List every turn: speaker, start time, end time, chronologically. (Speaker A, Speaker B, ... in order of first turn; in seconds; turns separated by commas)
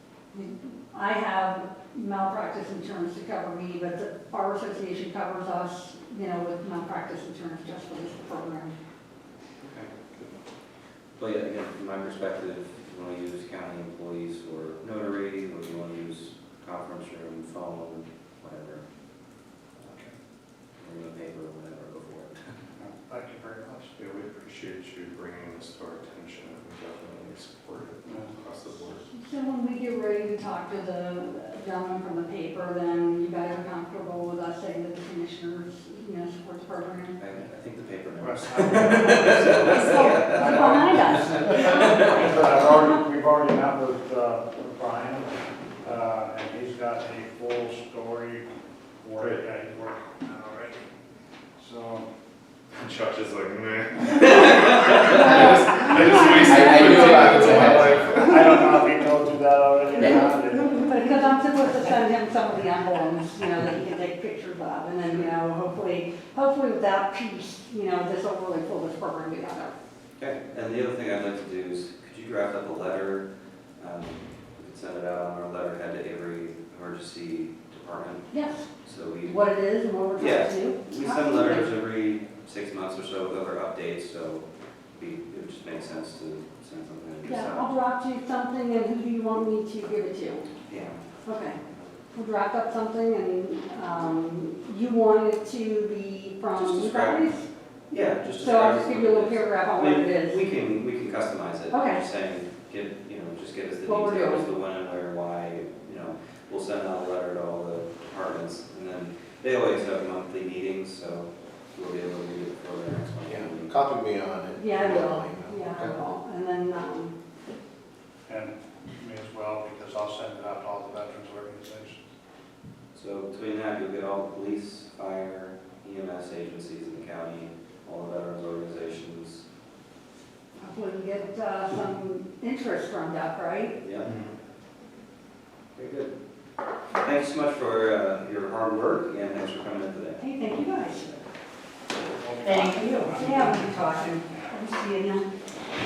Speaker A: 0.3-8.7, Speaker B: 9.6-9.9, Speaker B: 11.2-18.8, Speaker C: 19.9-20.1, Speaker B: 20.8-22.4, Speaker C: 22.8-23.9, Speaker D: 23.9-29.0, Speaker C: 28.1-28.3, Speaker A: 29.1-37.2, Speaker B: 37.2-42.3, Speaker C: 38.2-45.3, Speaker A: 39.6-42.2, Speaker C: 45.8-48.5, Speaker C: 49.0-50.8, Speaker C: 51.6-52.1, Speaker D: 52.7-58.3, Speaker A: 55.0-58.6, Speaker E: 56.3-58.1, Speaker C: 57.5-61.0, Speaker A: 60.0-69.7, Speaker B: 70.2-73.2, Speaker B: 73.8-78.2, Speaker A: 78.3-78.7, Speaker B: 78.8-79.4, Speaker A: 79.2-81.7, Speaker B: 80.2-87.7, Speaker A: 87.2-90.5, Speaker B: 90.7-91.0, Speaker A: 91.2-91.6, Speaker B: 91.6-92.0, Speaker A: 92.1-97.5, Speaker B: 96.5-97.2, Speaker B: 97.9-113.8, Speaker A: 98.4-100.4, Speaker A: 101.7-102.0, Speaker A: 103.8-104.5, Speaker E: 113.3-115.9, Speaker A: 114.5-117.2, Speaker C: 118.3-122.0, Speaker B: 122.9-129.4, Speaker A: 130.6-133.8, Speaker B: 133.8-134.1, Speaker B: 135.7-136.1, Speaker B: 136.9-140.3, Speaker A: 140.2-141.2, Speaker C: 142.0-144.0, Speaker A: 142.4-145.3